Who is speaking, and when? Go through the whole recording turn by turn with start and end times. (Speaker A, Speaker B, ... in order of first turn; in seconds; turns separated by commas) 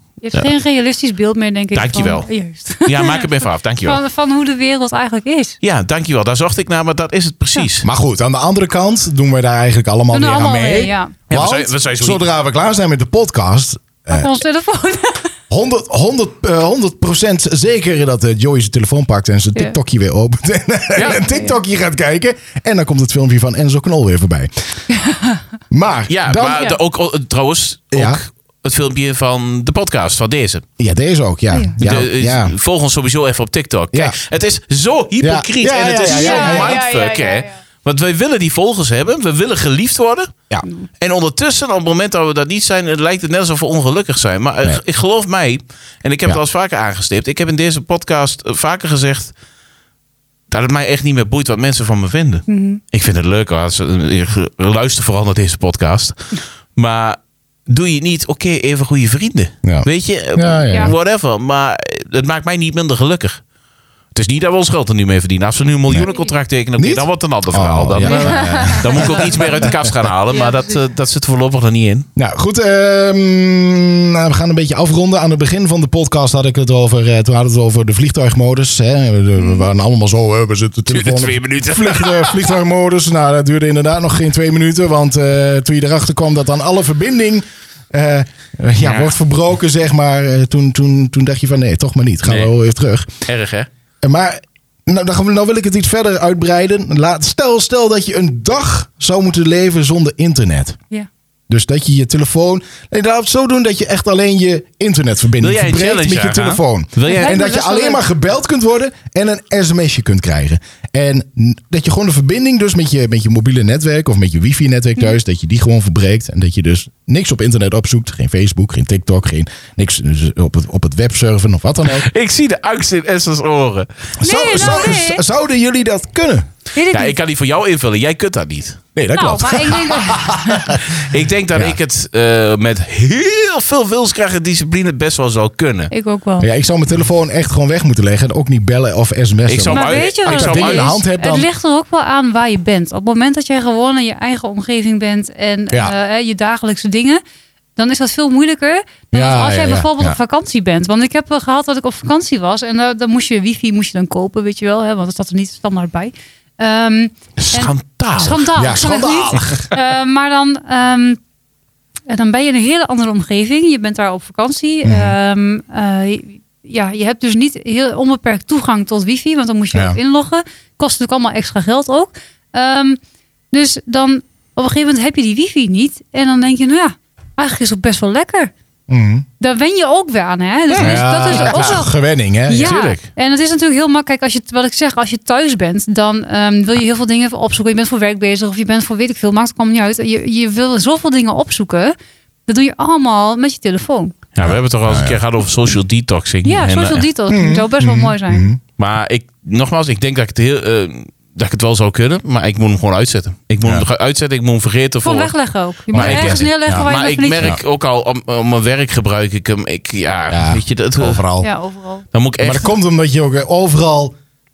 Speaker A: 0.2-5.6, Speaker B: 1.7-2.3, Speaker B: 2.8-4.0, Speaker B: 5.6-7.9, Speaker C: 7.8-14.3, Speaker A: 10.1-11.2, Speaker B: 11.3-12.2, Speaker A: 14.1-15.3, Speaker C: 15.5-24.5, Speaker A: 21.0-21.6, Speaker A: 24.9-25.4, Speaker C: 25.7-26.7, Speaker B: 26.1-30.6, Speaker C: 27.9-28.2, Speaker C: 30.8-32.5, Speaker A: 31.5-31.8, Speaker B: 31.8-40.4, Speaker C: 35.2-36.8, Speaker A: 36.1-37.5, Speaker B: 41.0-49.3, Speaker B: 50.5-56.2, Speaker A: 52.5-52.8, Speaker B: 56.8-63.4, Speaker C: 59.6-61.0, Speaker B: 64.1-72.1, Speaker C: 66.8-69.9, Speaker A: 68.0-70.8, Speaker C: 72.2-93.1, Speaker A: 79.4-79.6, Speaker B: 80.9-82.5, Speaker B: 88.8-89.1, Speaker B: 92.3-92.5, Speaker B: 93.3-93.7, Speaker C: 94.0-100.8, Speaker C: 101.5-122.1, Speaker B: 105.4-107.4, Speaker A: 107.1-108.0, Speaker B: 121.9-123.9, Speaker A: 124.2-125.2, Speaker C: 124.2-126.5, Speaker A: 126.8-127.2, Speaker B: 126.9-128.8, Speaker C: 129.0-131.8, Speaker A: 129.1-130.8, Speaker B: 130.9-135.9, Speaker A: 135.9-136.5, Speaker C: 136.4-141.5, Speaker B: 139.5-141.0, Speaker A: 139.7-147.2, Speaker A: 147.8-161.2, Speaker C: 149.1-150.2, Speaker B: 157.4-158.5, Speaker C: 158.6-159.7, Speaker A: 162.1-173.0, Speaker C: 164.8-165.2, Speaker A: 173.5-178.5, Speaker C: 178.9-179.3, Speaker A: 179.4-181.9, Speaker B: 180.7-181.8, Speaker C: 180.8-182.9, Speaker A: 182.5-191.9, Speaker B: 182.6-183.0, Speaker A: 192.5-194.2, Speaker B: 194.4-197.1, Speaker C: 194.4-195.2, Speaker A: 196.4-198.5, Speaker C: 197.3-198.6, Speaker B: 198.8-205.3, Speaker A: 205.0-207.6, Speaker B: 205.9-211.2, Speaker C: 205.9-206.9, Speaker C: 210.3-211.5, Speaker A: 211.4-212.1, Speaker B: 212.1-212.7, Speaker C: 212.4-214.2